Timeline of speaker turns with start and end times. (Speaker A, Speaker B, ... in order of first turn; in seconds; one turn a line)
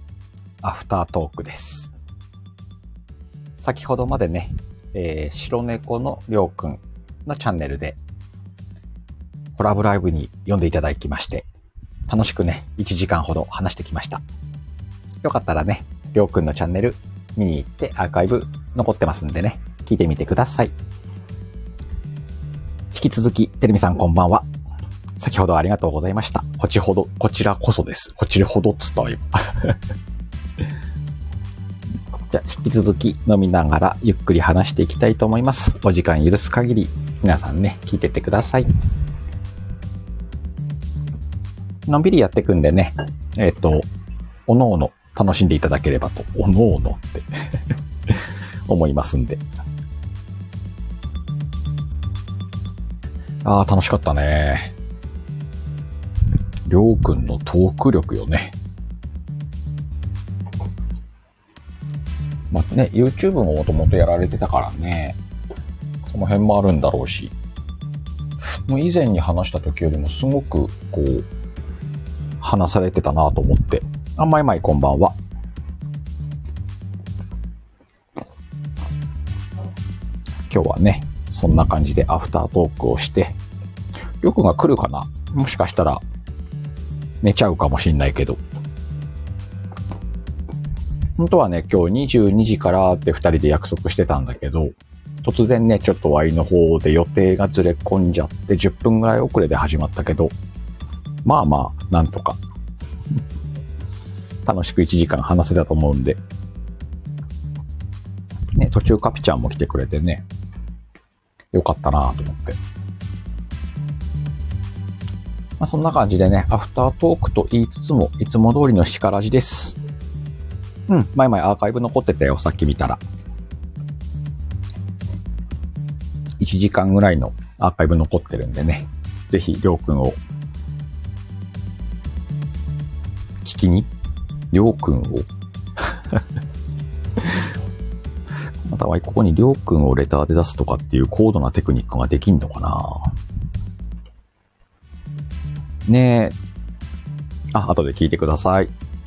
Speaker A: 0.6-1.9
Speaker A: 3.6-8.0
Speaker A: 9.6-11.5
Speaker A: 12.1-14.2
Speaker A: 15.2-20.7
Speaker A: 22.9-24.5
Speaker A: 25.2-29.8
Speaker A: 32.3-38.7
Speaker A: 41.9-43.9
Speaker A: 44.5-47.3
Speaker A: 48.1-49.4
Speaker A: 53.4-54.7
Speaker A: 56.7-58.5
Speaker A: 62.5-65.2
Speaker A: 66.0-67.3
Speaker A: 68.5-71.3
Speaker A: 72.4-75.2
Speaker A: 80.5-83.4
Speaker A: 84.2-86.0
Speaker A: 87.2-88.4
Speaker A: 91.2-100.3
Speaker A: 101.2-102.4
Speaker A: 104.5-106.2
Speaker A: 108.6-110.2
Speaker A: 111.5-112.6
Speaker A: 115.6-119.8
Speaker A: 120.9-123.0
Speaker A: 126.4-130.2
Speaker A: 133.4-133.9
Speaker A: 134.5-135.3
Speaker A: 135.8-136.2
Speaker A: 137.2-137.5
Speaker A: 138.6-143.2
Speaker A: 145.9-146.4
Speaker A: 147.5-148.7